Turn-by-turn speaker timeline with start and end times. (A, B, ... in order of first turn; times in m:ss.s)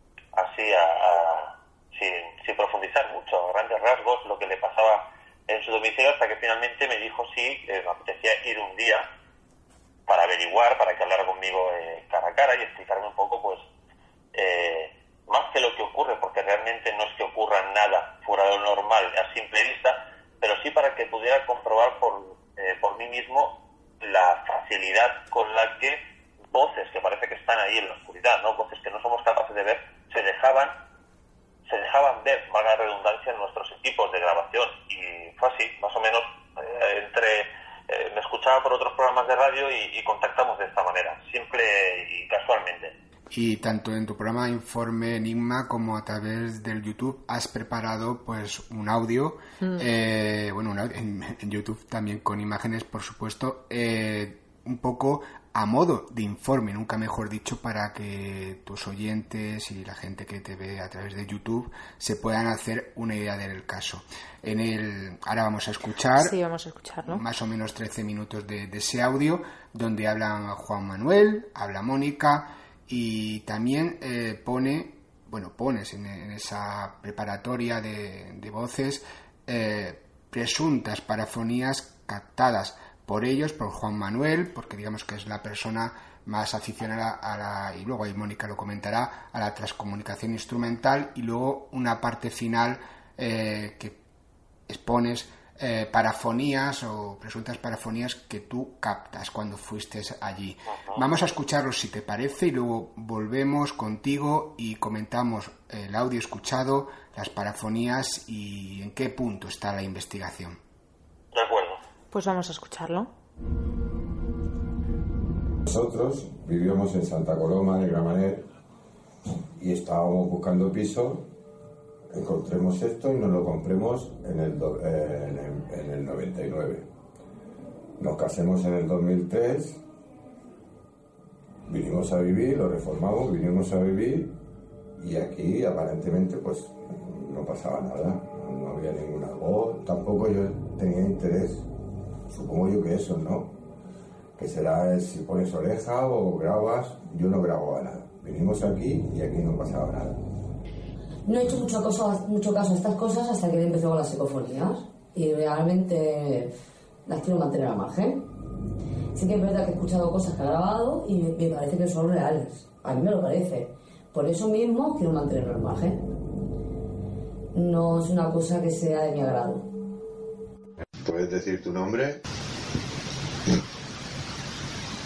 0:00.4-0:09.1 A
0:10.1-0:13.6 A
0:14.3-0:26.0 A
0:26.5-0:30.8 A
0:31.7-0:42.9 A
0:43.3-1:06.4 B
0:49.6-0:49.9 C
1:06.2-1:07.2 C
1:07.1-1:34.0 B
1:34.7-1:50.6 B
1:40.7-1:41.0 A
1:51.3-1:51.8 A
1:52.1-1:53.1 C
1:55.6-1:58.5 D
1:59.6-2:01.3 D
2:02.1-2:06.9 D
2:08.0-2:09.8 D
2:11.7-2:14.3 D
2:15.0-2:21.6 D
2:22.3-2:23.6 D
2:24.4-2:30.2 D
2:31.3-2:36.5 E
2:37.1-2:38.2 E
2:39.1-2:46.0 E
2:47.5-2:49.7 E
2:51.0-2:52.2 D